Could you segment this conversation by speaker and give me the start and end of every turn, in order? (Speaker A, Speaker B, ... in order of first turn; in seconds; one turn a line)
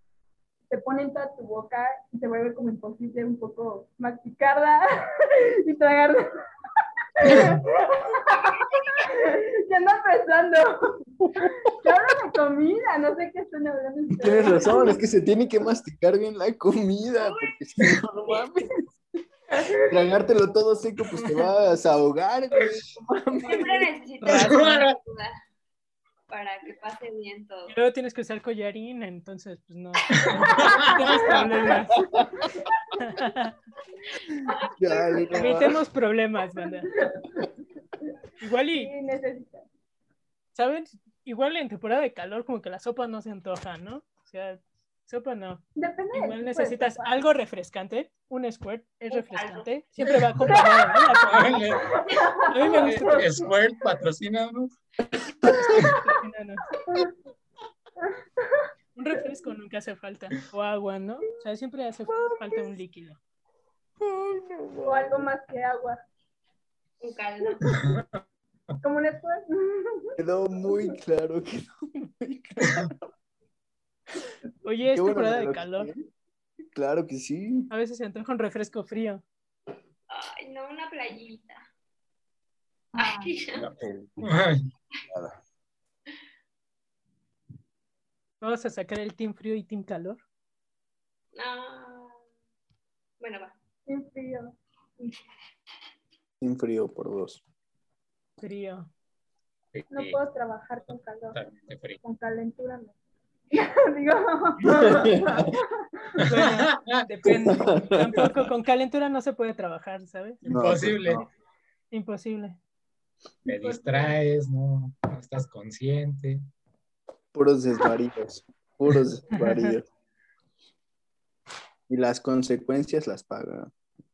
Speaker A: 0.7-6.3
Speaker A: 7.2-15.0
Speaker B: 8.2-9.0
Speaker C: 11.4-11.7
Speaker C: 14.2-18.9
Speaker B: 17.2-17.5
Speaker A: 19.5-20.1
Speaker C: 19.8-23.9
Speaker B: 23.4-25.4
Speaker D: 24.2-24.9
Speaker E: 24.2-24.9
Speaker B: 26.3-27.8
Speaker E: 27.7-32.0
Speaker D: 30.1-31.4
Speaker A: 30.6-32.9
Speaker C: 31.9-32.5
Speaker E: 33.0-33.5
Speaker B: 34.5-35.6
Speaker C: 34.8-35.8
Speaker E: 35.3-36.9
Speaker A: 36.6-37.5
Speaker E: 38.4-38.9
Speaker A: 38.7-39.6
Speaker E: 40.5-51.5
Speaker A: 45.8-47.2
Speaker B: 49.1-49.7
Speaker D: 51.2-51.8
Speaker A: 51.8-53.5
Speaker E: 52.5-53.2
Speaker D: 52.7-54.7
Speaker C: 55.4-55.8
Speaker E: 55.9-56.6
Speaker A: 56.9-57.1
Speaker A: 58.0-58.7
Speaker E: 59.0-63.2
Speaker C: 64.0-65.3
Speaker A: 64.8-66.0
Speaker B: 67.0-67.6
Speaker A: 67.4-67.8
Speaker D: 67.7-68.0
Speaker A: 68.8-70.9
Speaker C: 70.2-73.0
Speaker E: 74.6-75.9
Speaker C: 74.9-76.0
Speaker C: 76.7-77.7
Speaker E: 77.7-79.2
Speaker B: 80.1-81.7
Speaker A: 82.9-83.3
Speaker B: 82.9-83.7
Speaker D: 83.6-84.7
Speaker C: 83.6-84.4
Speaker C: 85.1-85.4
Speaker E: 88.4-90.2
Speaker B: 91.3-92.2
Speaker B: 93.2-93.5
Speaker A: 93.9-95.2
Speaker C: 96.4-97.4
Speaker E: 98.4-98.9
Speaker D: 99.7-100.2
Speaker A: 99.9-101.4
Speaker D: 101.3-102.0
Speaker A: 102.0-102.9
Speaker A: 103.5-106.2
Speaker C: 104.7-105.5
Speaker D: 106.2-107.0
Speaker E: 106.2-110.4
Speaker C: 107.2-108.5
Speaker D: 110.4-111.2
Speaker C: 110.5-111.3
Speaker E: 111.9-112.6
Speaker D: 113.5-116.4
Speaker A: 113.5-114.1
Speaker C: 117.3-119.8
Speaker E: 119.3-119.8
Speaker C: 121.9-123.7